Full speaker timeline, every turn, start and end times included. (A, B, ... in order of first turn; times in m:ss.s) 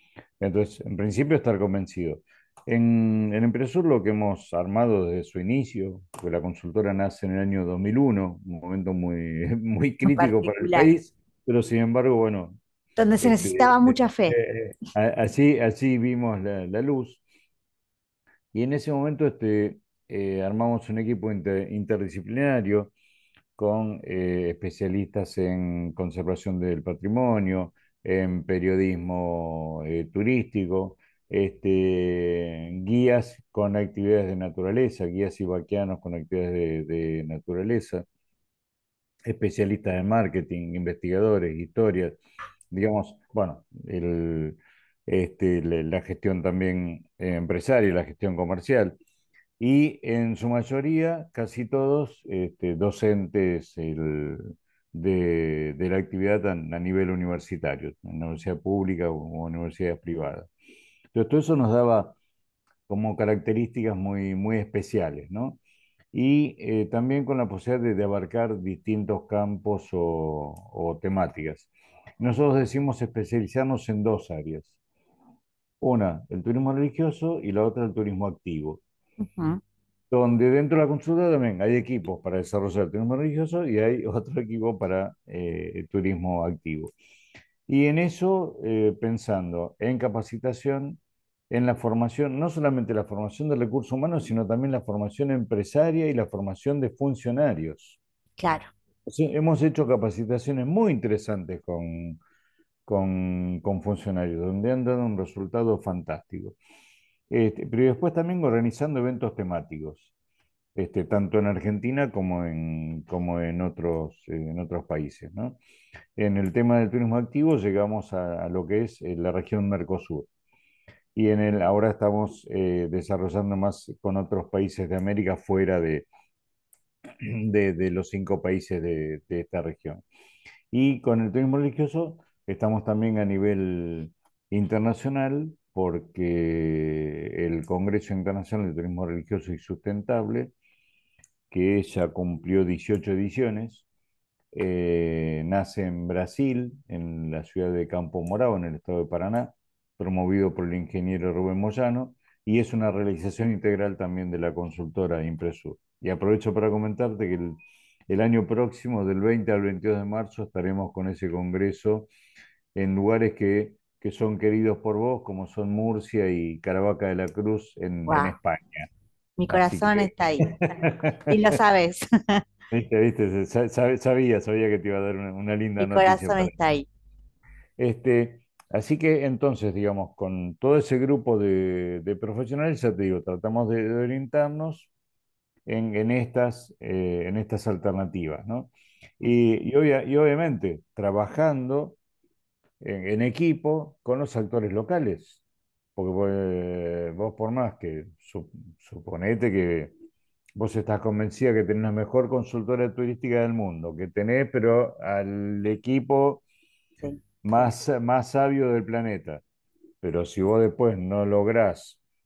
0:00.4-0:12.6 A
0:10.0-0:10.9 B
0:13.0-0:14.4 B
0:13.2-0:17.2 A
0:18.5-0:22.9 A
0:23.6-0:38.0 A
0:39.2-0:42.2 A
0:42.7-0:49.0 A
0:49.6-1:00.5 A
1:01.1-1:02.2 A
1:02.9-1:05.6 A
1:06.1-1:14.7 A
1:15.8-1:18.8 A
1:19.2-1:19.6 B
1:20.1-1:26.9 A
1:27.7-1:31.0 A
1:31.5-1:38.0 A
1:38.4-1:38.7 B
1:39.1-1:42.2 A
1:42.8-1:46.6 A
1:47.3-1:50.1 A
1:50.8-1:55.6 A
1:56.2-2:00.3 A
2:01.1-2:06.1 A
2:07.2-2:10.0 A
2:10.7-2:20.5 A
2:21.5-2:23.8 A
2:24.5-2:37.6 A
2:38.1-2:42.1 A
2:42.7-2:48.9 A
2:48.1-2:48.3 B
2:49.4-2:50.5 B
2:49.5-2:51.4 A
2:51.3-2:52.4 B
2:52.7-2:56.6 A
2:55.8-2:56.9 B
2:57.8-3:04.9 A
3:05.6-3:12.0 A
3:12.8-3:15.4 A
3:16.0-3:19.9 A
3:20.6-3:26.4 A
3:27.4-3:29.4 A
3:30.0-3:32.0 A